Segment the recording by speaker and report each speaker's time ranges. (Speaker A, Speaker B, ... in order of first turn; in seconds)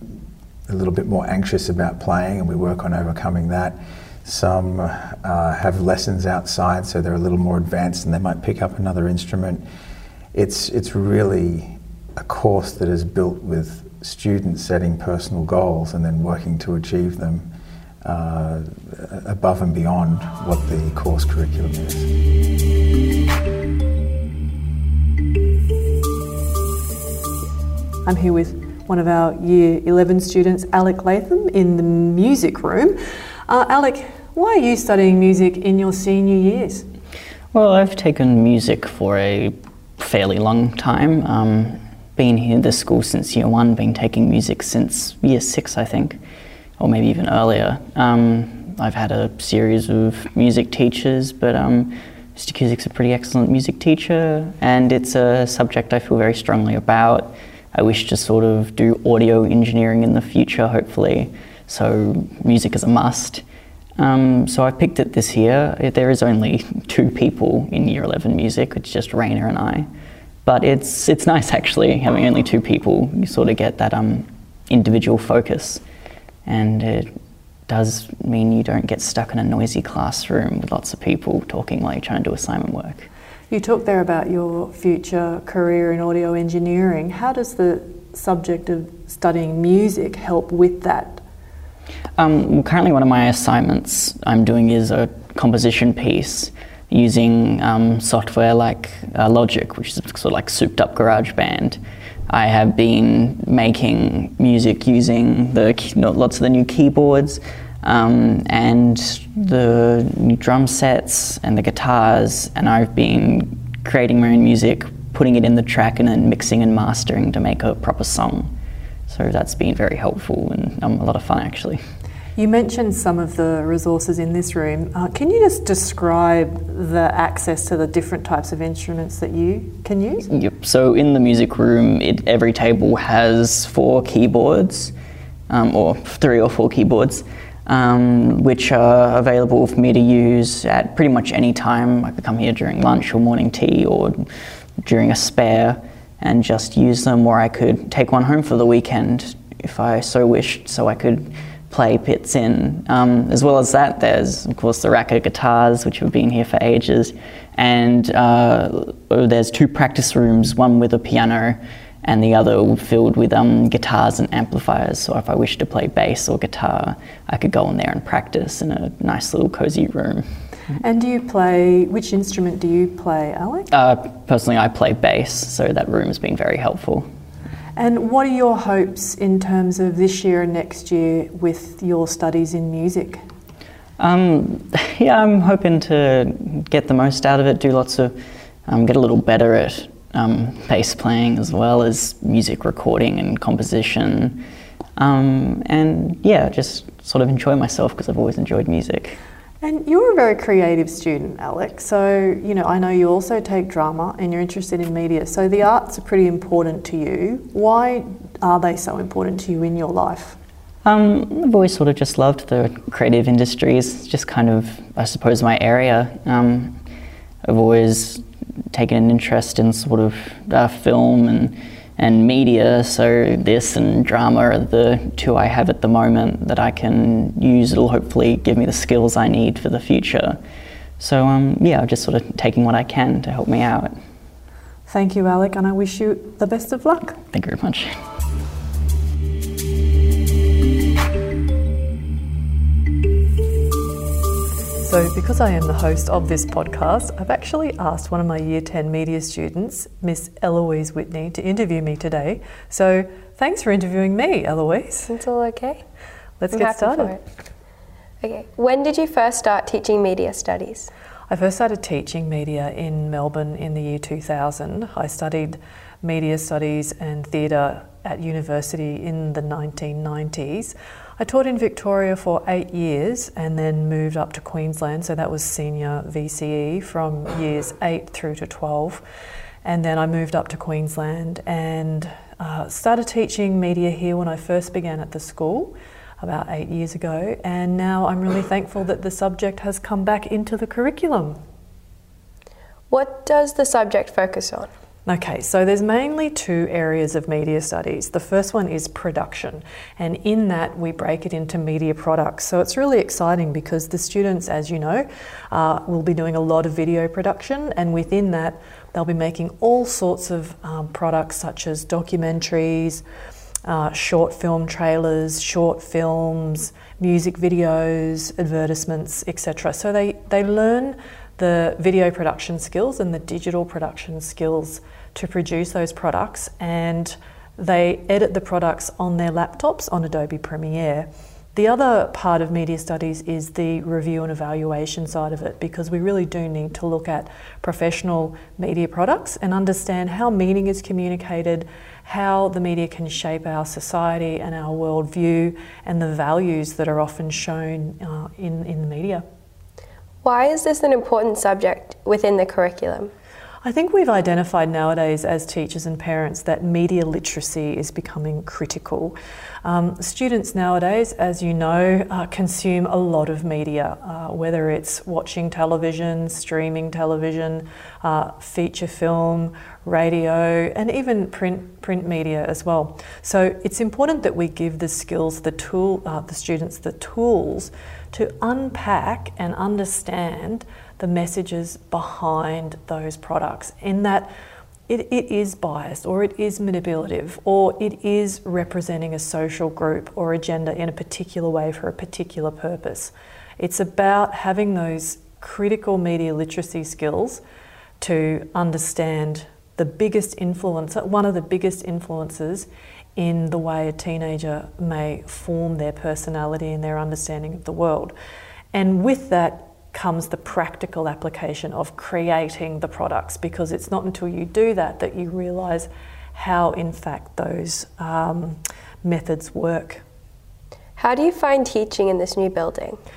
Speaker A: 0.7-9.6, 10.3-17.5, 18.0-22.1
Speaker B: 28.1-36.9, 83.5-91.2, 122.4-130.3, 170.8-173.7, 177.8-183.2, 199.6-210.4, 234.9-237.2, 244.8-255.1, 256.4-257.2, 261.3-279.0, 279.6-291.4, 295.1-313.0, 313.6-349.2, 353.6-384.3, 384.9-397.4, 398.0-408.1, 408.7-420.0
Speaker C: 37.5-46.2, 46.8-63.4, 64.0-69.9, 70.4-75.8, 76.5-77.1, 77.7-83.1, 92.2-118.5, 119.1-121.8, 130.3-134.9, 135.5-170.3, 173.7-177.1, 184.0-194.4, 195.0-199.2, 210.8-216.8, 217.4-230.4, 231.0-234.0, 237.3-238.0
Speaker D: 255.1-255.8, 256.5-257.2, 258.2-260.9, 292.9-294.7, 350.2-353.1, 421.0-423.0